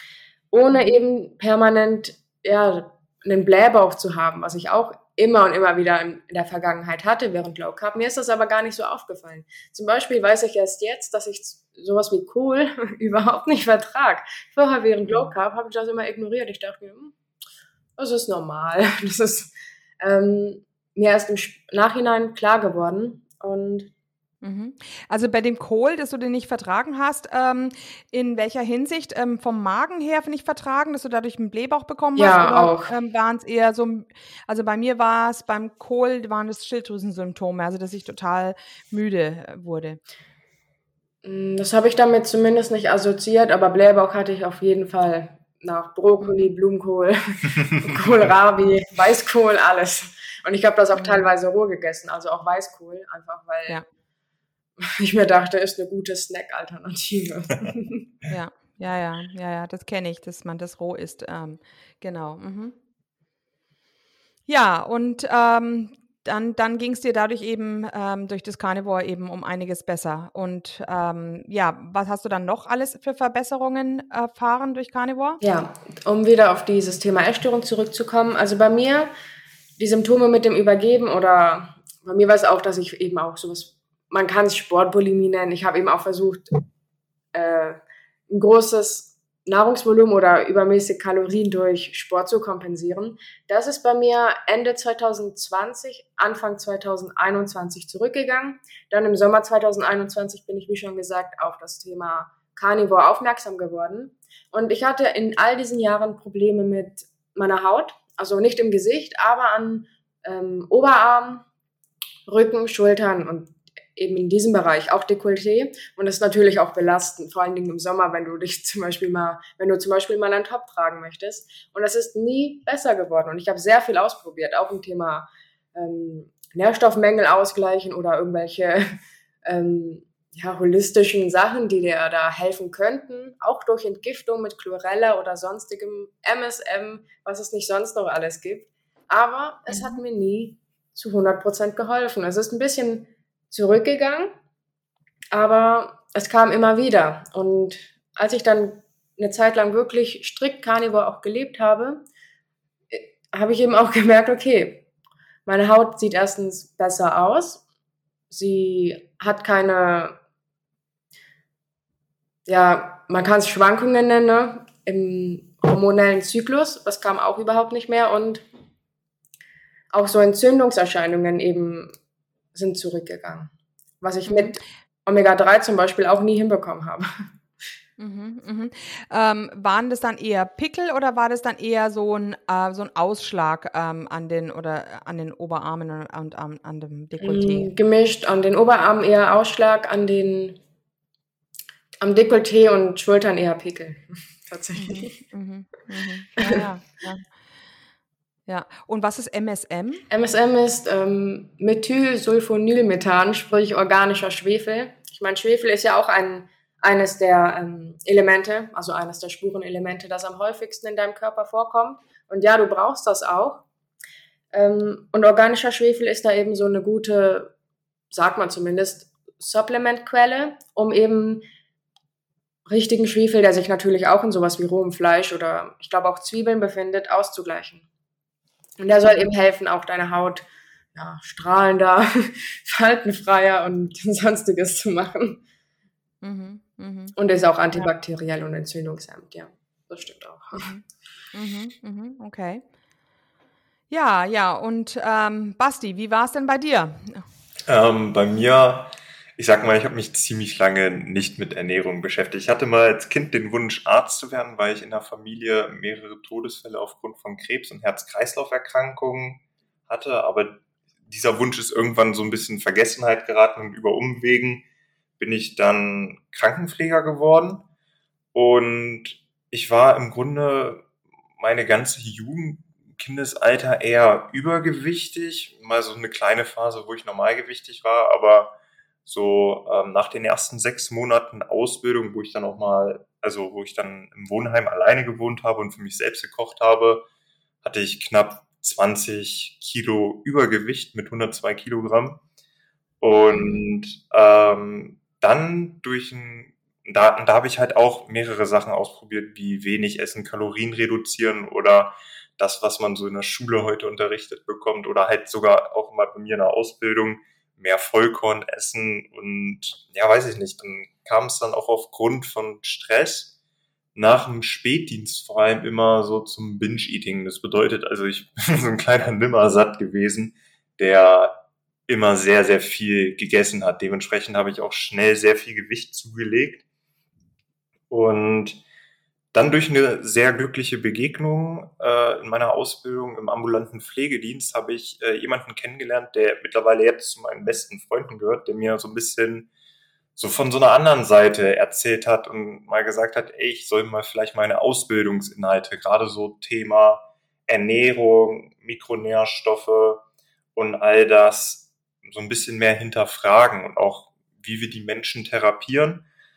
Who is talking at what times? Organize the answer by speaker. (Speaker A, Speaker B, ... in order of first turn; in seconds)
Speaker A: 0.5-17.1, 18.0-23.9, 32.1-32.9, 41.2-53.8, 54.8-58.1, 75.4-79.1, 79.8-86.5, 87.3-111.4, 112.3-128.8, 129.4-144.3, 145.3-152.0, 152.9-154.8, 155.4-157.6, 158.3-160.2, 162.4-168.4, 169.9-171.9, 172.5-177.1, 187.2-190.6, 192.0-195.1, 200.1-213.6, 214.5-217.5, 218.1-221.4, 222.7-227.8, 228.8-235.4, 237.2-240.6
Speaker B: 0.7-1.0, 24.4-40.0, 46.2-46.5, 50.9-51.3, 58.3-62.7, 64.5-75.4, 139.7-140.0, 174.3-174.6, 178.0-187.7, 194.8-197.2, 198.5-200.0, 236.2-237.2, 240.6-242.6, 243.9-247.2, 293.3-293.6
Speaker C: 247.7-264.6, 265.2-267.7, 268.3-270.8, 271.4-287.0, 287.6-292.2, 293.0-313.3, 313.9-326.6, 327.9-328.6, 329.3-339.5, 340.1-350.0, 350.5-356.1